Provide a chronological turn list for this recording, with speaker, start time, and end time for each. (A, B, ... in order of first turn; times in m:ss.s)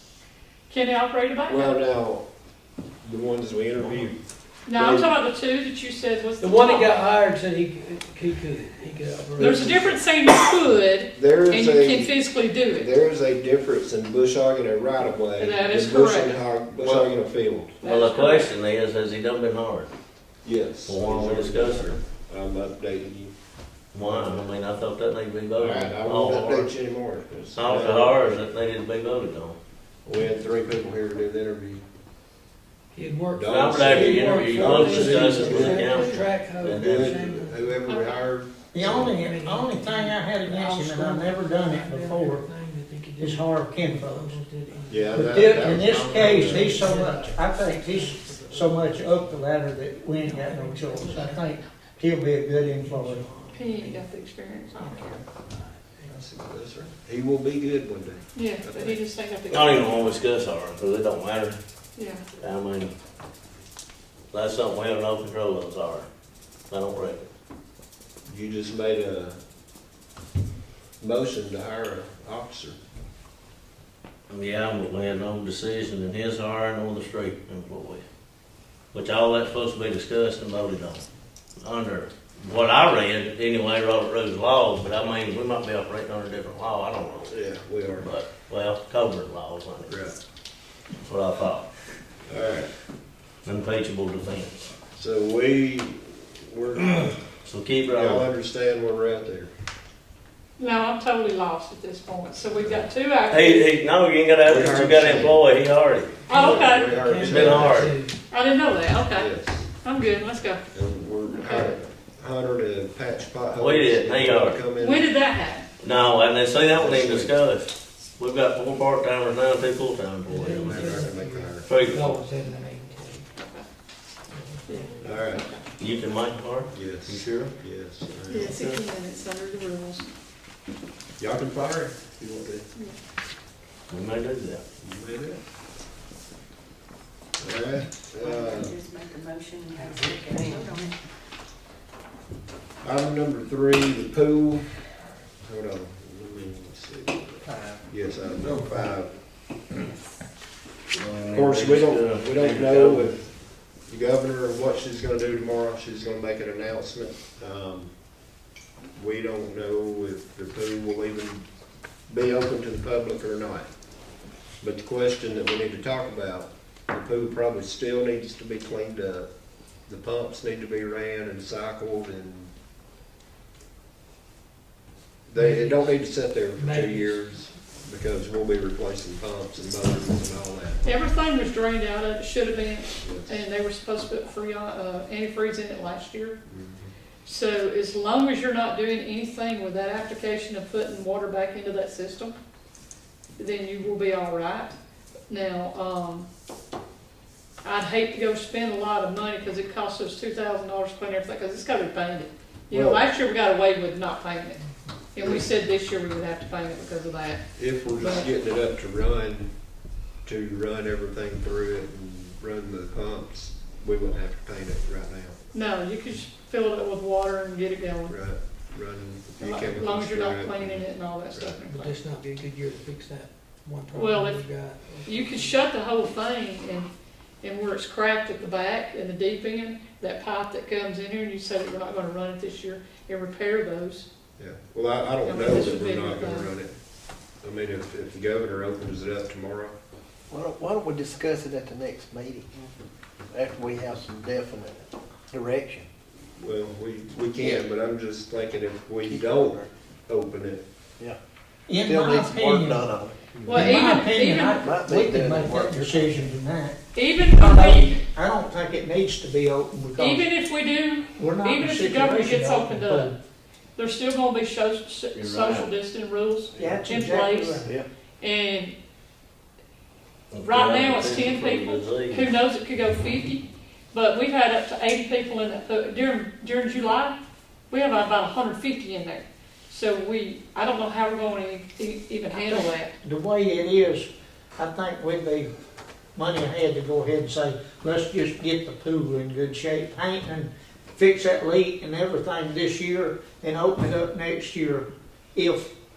0:00.7-0:01.8 A
0:01.5-0:02.3 B
0:03.0-0:04.2 B
0:04.7-0:07.0 A
0:04.7-0:05.1 B
0:06.4-0:09.9 C
0:09.4-0:12.9 A
0:09.4-0:10.0 B
0:11.1-0:12.2 B
0:12.7-0:17.7 B
0:15.4-0:16.3 A
0:16.8-0:17.1 D
0:17.8-0:18.5 A
0:17.8-0:19.9 D
0:20.4-0:23.3 B
0:20.9-0:21.9 D
0:23.9-0:26.7 D
0:24.0-0:24.5 B
0:25.6-0:28.4 B
0:27.5-0:29.6 D
0:30.0-0:31.8 B
0:32.9-0:37.8 C
0:33.3-0:36.0 B
0:33.5-0:37.2 D
0:34.6-0:36.0 A
0:36.6-0:39.2 B
0:37.9-0:38.2 A
0:38.7-0:42.5 E
0:39.0-0:49.3 C
0:43.2-0:44.4 E
0:44.9-0:46.9 B
0:45.1-0:53.2 E
0:50.2-0:51.6 C
0:52.7-0:54.1 C
0:53.5-0:55.1 A
0:54.8-0:56.3 C
0:56.1-0:59.0 B
0:58.4-1:00.1 A
0:59.5-1:01.6 D
1:02.0-1:02.2 A
1:02.4-1:02.9 D
1:04.3-1:06.1 D
1:06.7-1:07.3 D
1:08.3-1:09.4 B
1:11.0-1:12.8 B
1:14.3-1:18.0 D
1:18.9-1:21.0 D
1:21.6-1:27.4 D
1:27.3-1:28.1 B
1:28.0-1:30.0 D
1:29.9-1:30.2 B
1:31.0-1:31.7 D
1:32.3-1:32.7 B
1:33.4-1:34.7 D
1:35.0-1:37.2 B
1:37.5-1:38.3 D
1:37.9-1:39.5 B
1:40.6-1:43.7 A
1:43.3-1:48.0 D
1:44.4-1:45.4 B
1:46.3-1:48.2 C
1:46.3-1:47.3 A
1:46.3-1:47.9 B
1:48.3-1:50.7 A
1:49.2-1:49.7 B
1:50.7-1:55.1 B
1:51.3-1:51.8 A
1:53.6-1:54.6 D
1:54.8-1:55.6 A
1:55.8-2:01.1 D
1:56.7-1:57.4 B
2:00.3-2:03.3 C
2:00.5-2:01.7 B
2:01.6-2:02.2 D
2:03.4-2:03.7 A
2:04.3-2:05.1 C
2:04.7-2:05.6 A
2:05.0-2:05.5 B
2:05.8-2:07.5 D
2:06.7-2:08.6 B
2:08.3-2:10.1 A
2:11.2-2:12.7 B
2:13.9-2:14.6 D
2:14.8-2:15.4 B
2:17.4-2:18.8 B
2:18.2-2:21.0 F
2:19.9-2:20.2 G
2:20.3-2:20.7 C
2:22.8-2:24.7 B
2:25.4-2:29.1 B
2:30.9-2:33.2 D
2:31.3-2:37.9 B
2:39.0-2:41.5 B
2:42.1-2:43.7 B
2:44.6-2:49.3 B
2:49.9-2:52.5 B
2:55.3-3:00.8 B
2:55.3-2:56.0 C
2:56.6-2:57.2 C
3:00.8-3:06.4 A
3:03.0-3:03.4 B
3:06.5-3:06.9 B
3:07.2-3:12.4 A
3:13.4-3:14.8 A
3:15.3-3:16.3 A
3:17.6-3:24.6 A
3:22.7-3:23.0 B
3:25.1-3:28.3 A
3:25.2-3:25.5 B
3:27.6-3:29.5 B
3:30.2-3:35.4 B
3:35.5-3:38.2 A
3:38.1-3:41.6 B
3:39.4-3:42.0 A
3:41.7-3:45.6 C
3:43.9-3:44.4 A
3:45.0-3:46.9 A
3:47.4-3:54.1 A
3:54.4-3:56.8 B
3:55.2-3:56.5 A
3:57.4-3:59.8 B
4:00.3-4:02.7 G
4:03.3-4:05.9 G
4:06.4-4:10.6 B
4:09.0-4:09.7 G
4:11.7-4:16.8 E
4:11.8-4:13.7 G
4:13.4-4:14.7 A
4:14.6-4:16.2 G
4:17.0-4:18.0 A
4:17.3-4:20.3 E
4:20.0-4:23.1 A
4:21.2-4:23.2 E
4:23.8-4:27.7 A
4:25.2-4:25.7 D
4:26.6-4:27.7 E
4:28.2-4:28.8 A
4:30.3-4:32.3 D
4:30.5-4:37.2 A
4:37.7-4:42.9 A
4:42.4-4:45.5 E
4:46.2-4:55.7 E